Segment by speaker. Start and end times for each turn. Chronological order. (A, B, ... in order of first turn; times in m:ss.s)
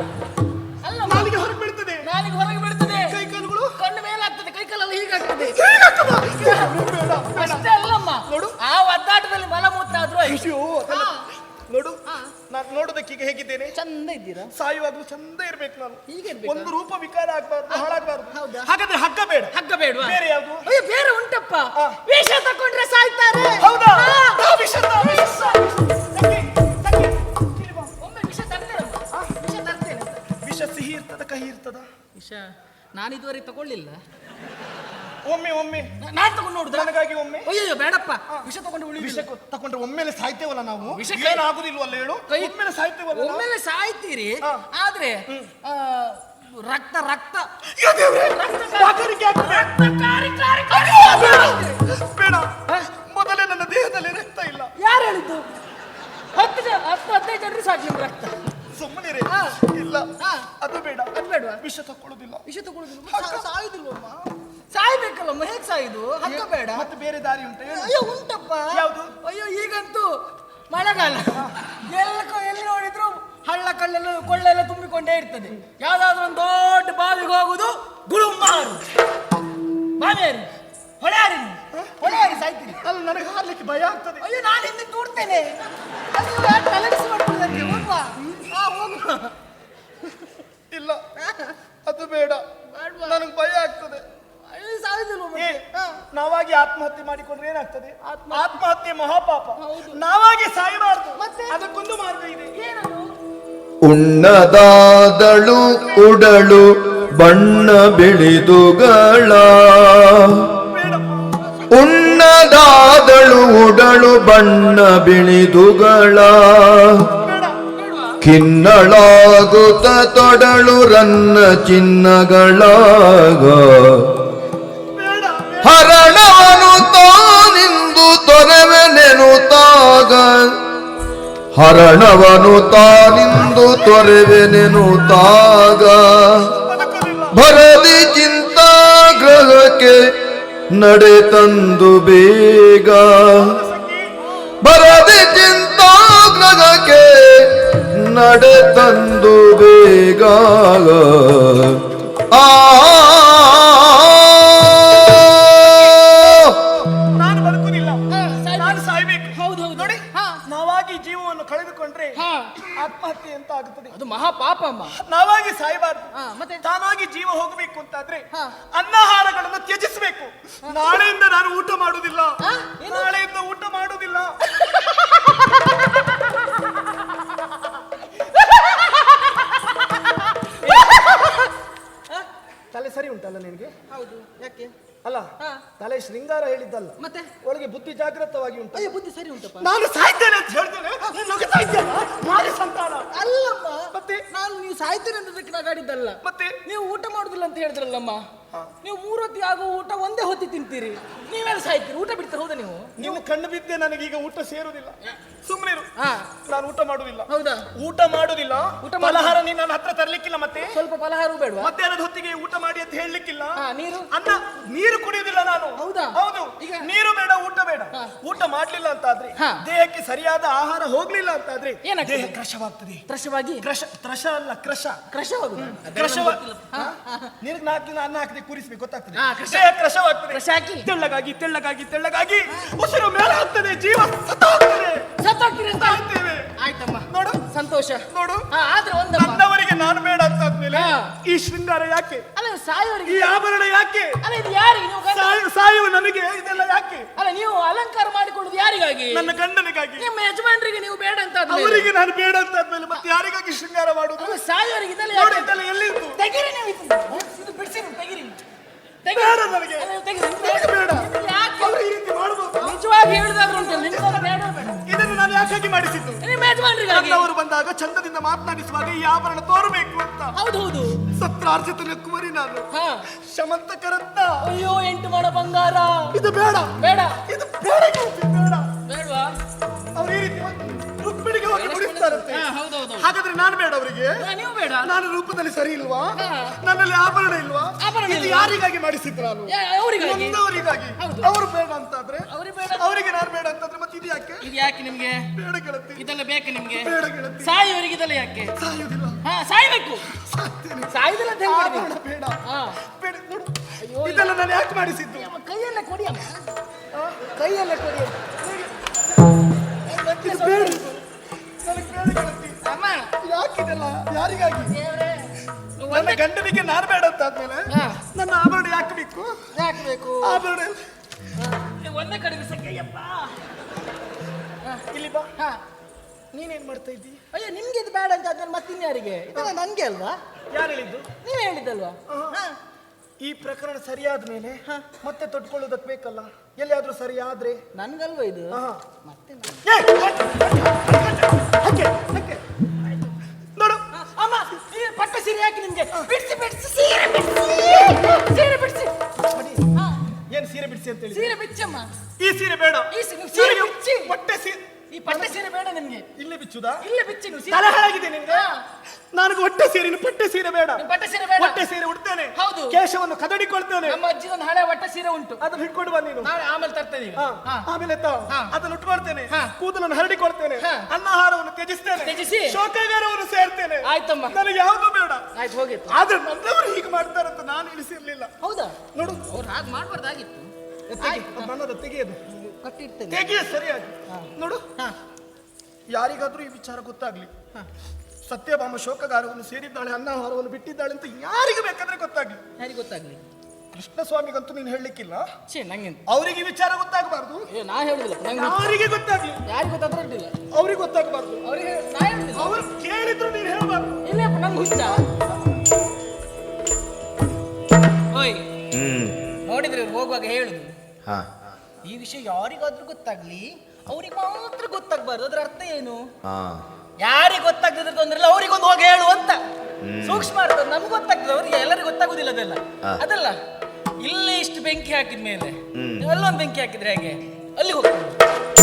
0:00.8-0:01.4 A
0:01.1-0:02.0 B
0:02.0-0:03.2 A
0:03.1-0:03.7 B
0:03.8-0:05.6 A
0:05.3-0:07.7 B
0:06.4-0:06.7 A
0:07.3-0:11.2 A
0:08.3-0:08.5 B
0:10.2-0:12.0 B
0:12.5-0:13.7 B
0:13.7-0:14.5 A
0:14.5-0:20.7 B
0:16.1-0:16.7 A
0:17.7-0:18.7 A
0:19.5-0:24.4 A
0:23.6-0:27.9 B
0:25.0-0:25.7 A
0:28.0-0:30.2 A
0:30.4-0:31.9 B
0:32.2-0:34.0 A
0:35.2-0:35.9 B
0:36.0-0:36.9 A
0:36.7-0:37.5 B
0:37.4-0:39.2 A
0:38.3-0:43.5 B
0:40.9-0:41.4 A
0:42.3-0:42.5 A
0:43.1-0:47.5 A
0:47.8-0:49.7 B
0:48.3-0:51.7 A
0:50.7-0:54.7 B
0:54.8-0:55.4 A
0:56.3-0:58.3 A
0:58.7-1:02.4 B
0:59.2-0:59.6 A
1:00.2-1:00.5 A
1:01.1-1:01.6 A
1:02.4-1:06.9 A
1:03.1-1:03.4 B
1:06.2-1:07.9 B
1:07.6-1:18.8 A
1:08.7-1:09.1 B
1:20.0-1:20.5 A
1:21.0-1:22.8 A
1:21.7-1:24.2 B
1:24.2-1:29.3 A
1:30.7-1:31.0 B
1:31.2-1:31.6 A
1:31.8-1:32.4 B
1:32.7-1:33.2 A
1:33.0-1:34.0 B
1:34.5-1:36.0 A
1:35.4-1:42.5 B
1:38.0-1:38.6 A
1:39.6-1:40.0 A
1:41.2-1:41.6 A
1:42.5-1:43.1 A
1:43.8-1:50.4 C
1:50.7-1:51.4 B
1:51.4-1:51.7 A
1:51.7-1:57.1 C
1:57.2-1:57.6 B
1:57.7-1:58.2 A
1:58.2-2:04.1 C
2:04.9-2:06.7 B
2:05.6-2:10.5 C
2:11.5-2:16.3 C
2:13.5-2:14.2 B
2:14.9-2:17.4 B
2:17.3-2:20.0 C
2:20.7-2:23.4 C
2:23.3-2:24.2 B
2:24.3-2:24.5 A
2:24.6-2:31.8 C
2:32.3-2:36.5 C
2:35.5-2:38.0 B
2:38.1-2:40.4 A
2:38.6-2:43.9 B
2:42.2-2:42.5 A
2:43.9-2:44.9 A
2:45.0-2:46.1 B
2:46.1-2:46.6 A
2:46.6-2:54.4 B
2:50.6-2:51.0 A
2:52.4-2:53.1 A
2:54.5-2:56.2 A
2:58.2-3:01.5 A
3:00.6-3:01.3 B
3:02.7-3:03.7 B
3:03.9-3:04.7 A
3:05.0-3:08.9 B
3:07.0-3:07.3 A
3:08.7-3:09.7 A
3:09.6-3:13.1 B
3:13.1-3:18.2 A
3:13.9-3:14.2 B
3:16.2-3:16.6 B
3:18.8-3:23.2 A
3:23.0-3:25.9 B
3:26.0-3:26.3 A
3:26.4-3:30.8 B
3:27.3-3:27.7 A
3:28.8-3:29.4 A
3:30.7-3:31.7 A
3:31.6-3:33.6 B
3:33.6-3:34.1 A
3:34.1-3:43.0 B
3:35.8-3:36.9 A
3:39.4-3:39.6 A
3:41.8-3:42.3 A
3:43.1-3:43.6 A
3:43.6-3:45.0 B
3:45.1-3:47.3 A
3:45.6-3:55.0 B
3:49.1-3:49.7 A
3:50.3-3:50.9 A
3:55.2-3:56.0 A
3:55.8-3:56.5 B
3:56.6-3:59.4 A
3:57.1-3:57.4 B
3:58.1-3:58.4 B
3:59.1-4:02.2 B
4:00.7-4:01.1 A
4:02.3-4:03.3 A
4:03.1-4:04.2 B
4:04.2-4:05.3 A
4:05.1-4:07.1 B
4:07.2-4:09.3 A
4:09.1-4:10.1 B
4:10.0-4:11.9 A
4:11.5-4:14.4 B
4:14.2-4:15.5 A
4:15.1-4:16.2 B
4:16.2-4:18.4 A
4:19.0-4:21.8 A
4:19.1-4:22.8 B
4:22.6-4:24.9 A
4:23.4-4:26.2 B
4:26.2-4:27.3 A
4:26.9-4:30.3 B
4:30.3-4:31.0 A
4:31.0-4:34.4 B
4:32.7-4:33.0 A
4:34.4-4:36.1 A
4:36.1-4:36.7 B
4:36.8-4:37.2 A
4:37.3-4:38.7 B
4:38.9-4:39.3 A
4:40.0-4:44.2 B
4:41.5-4:43.1 A
4:44.2-4:44.9 A
4:44.8-4:54.4 B
4:46.2-4:46.5 A
4:47.8-4:48.6 A
4:49.5-4:50.4 A
4:51.0-4:51.3 A
4:52.3-4:52.9 A
4:54.4-4:55.3 A
4:55.3-4:56.0 B
4:56.0-4:58.5 A
4:56.7-4:57.6 B
4:58.6-4:59.2 B
4:59.2-5:00.0 A
5:00.1-5:02.4 B
5:00.9-5:01.9 A
5:02.4-5:02.8 A
5:02.9-5:05.3 B
5:03.8-5:04.3 A
5:05.1-5:06.4 A
5:06.9-5:07.2 B
5:07.3-5:08.2 A
5:08.4-5:09.3 B
5:09.8-5:10.9 A
5:10.0-5:11.0 B
5:11.6-5:12.6 B
5:12.6-5:13.1 A
5:13.2-5:14.8 B
5:14.7-5:16.2 A
5:15.9-5:19.4 B
5:17.7-5:18.0 A
5:19.5-5:20.4 A
5:20.2-5:20.8 B
5:21.4-5:23.3 A
5:24.9-5:25.3 B
5:26.3-5:27.2 B
5:27.3-5:30.2 A
5:30.5-5:31.1 B
5:31.2-5:32.6 A
5:32.1-5:32.4 B
5:33.2-5:37.6 B
5:37.7-5:39.6 A
5:38.5-5:38.8 B
5:39.6-5:42.4 B
5:43.6-5:43.8 B
5:43.9-5:48.9 A
5:47.6-5:48.1 B
5:49.3-5:49.7 B
5:50.3-5:51.3 B
5:51.1-5:51.9 A
5:52.2-5:55.3 B
5:52.9-5:54.1 A
5:54.9-5:56.0 A
5:56.2-5:56.8 B
5:56.8-5:58.6 A
5:57.5-5:58.4 B
5:59.1-6:00.8 B
6:00.8-6:01.6 A
6:01.4-6:04.0 B
6:02.4-6:02.8 A
6:03.8-6:05.4 A
6:05.4-6:06.3 B
6:06.2-6:07.6 A
6:07.2-6:15.2 B
6:10.6-6:10.9 A
6:12.0-6:12.6 A
6:13.8-6:14.4 A
6:15.3-6:16.0 A
6:15.9-6:18.3 B
6:18.4-6:21.5 A
6:18.9-6:19.2 B
6:21.0-6:22.2 B
6:22.3-6:23.2 A
6:23.1-6:24.6 B
6:24.1-6:24.9 A
6:25.9-6:27.3 B
6:28.2-6:32.4 B
6:32.6-6:33.2 A
6:33.7-6:35.2 B
6:35.5-6:36.0 A
6:36.1-6:37.5 B
6:37.5-6:38.6 A
6:38.3-6:39.4 B
6:39.4-6:40.3 A
6:40.5-6:41.4 B
6:41.4-6:42.5 A
6:42.4-6:44.0 B
6:44.0-6:45.0 A
6:44.7-6:45.6 B
6:48.1-6:48.4 A
6:48.7-6:49.1 C
6:49.4-6:50.7 A
6:51.8-6:56.0 A
6:56.2-6:56.6 C
6:57.0-6:59.4 A
6:59.8-7:00.3 C
7:00.0-7:03.4 A
7:04.0-7:08.1 A
7:05.7-7:06.0 C